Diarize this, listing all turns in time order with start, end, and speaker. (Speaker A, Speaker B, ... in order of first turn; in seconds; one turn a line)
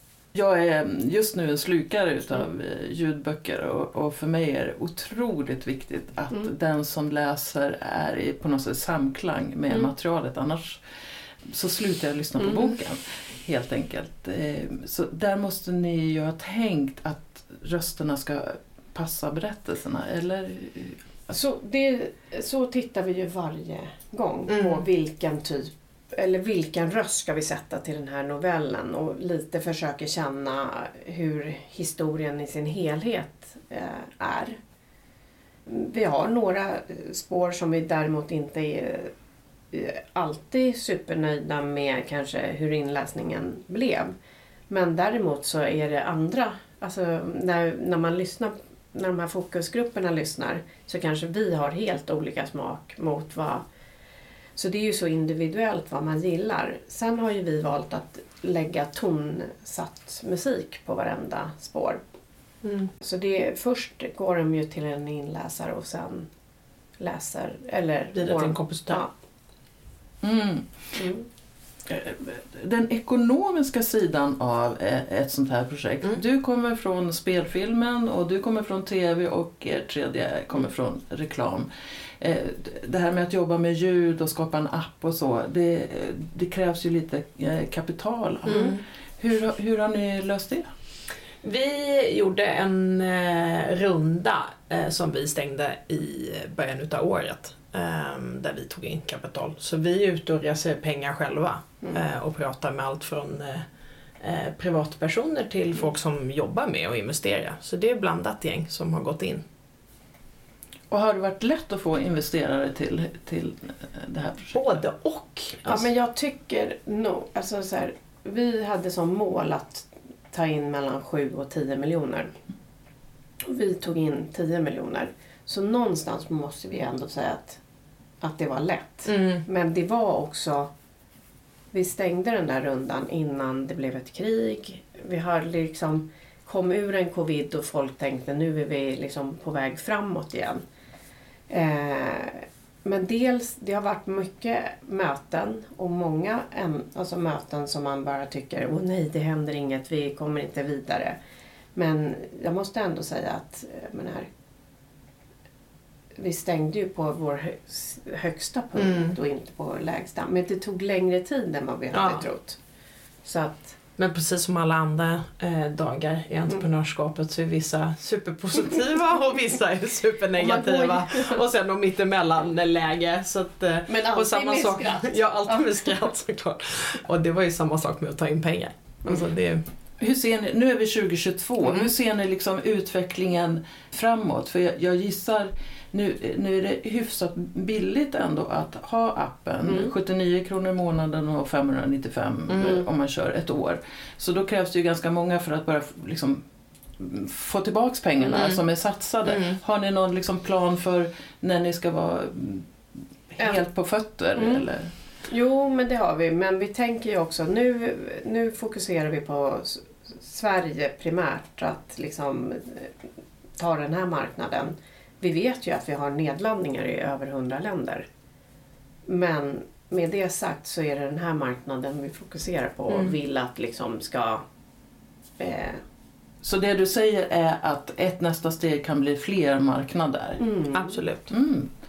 Speaker A: 0.3-10.8
Speaker A: 11.4-21.0
Speaker B: 21.3-34.6
Speaker C: 24.5-24.8
Speaker B: 35.6-39.1
Speaker B: 39.7-44.1
Speaker B: 44.7-53.6
Speaker B: 54.5-62.0
Speaker C: 62.6-62.9
Speaker B: 63.0-66.3
Speaker B: 67.0-69.1
Speaker C: 68.1-69.0
Speaker A: 70.2-70.8
Speaker B: 71.0-71.3
Speaker A: 71.9-81.7
Speaker A: 82.2-90.7
Speaker C: 88.5-88.8
Speaker C: 91.4-103.7
Speaker C: 104.2-109.4
Speaker A: 110.9-114.8
Speaker C: 114.5-115.9
Speaker B: 115.6-122.3
Speaker B: 123.4-127.6
Speaker B: 128.2-130.7
Speaker C: 129.1-129.4
Speaker B: 131.7-140.6
Speaker B: 141.5-151.2
Speaker B: 151.7-154.3
Speaker B: 156.2-162.6
Speaker C: 158.8-159.2
Speaker C: 161.9-162.2
Speaker B: 163.2-163.8
Speaker C: 164.0-179.6
Speaker B: 170.4-171.4
Speaker B: 173.9-175.9
Speaker A: 180.0-196.4
Speaker B: 189.7-189.9
Speaker C: 192.5-192.8
Speaker A: 197.0-202.7
Speaker C: 198.3-198.6
Speaker C: 199.2-199.6
Speaker A: 203.3-204.9
Speaker B: 204.3-204.6
Speaker B: 205.3-212.9
Speaker B: 213.6-218.1
Speaker B: 219.1-224.4
Speaker C: 222.9-223.2
Speaker B: 225.4-225.8
Speaker A: 226.4-230.4
Speaker B: 230.4-231.0
Speaker C: 230.7-231.3
Speaker A: 231.3-231.7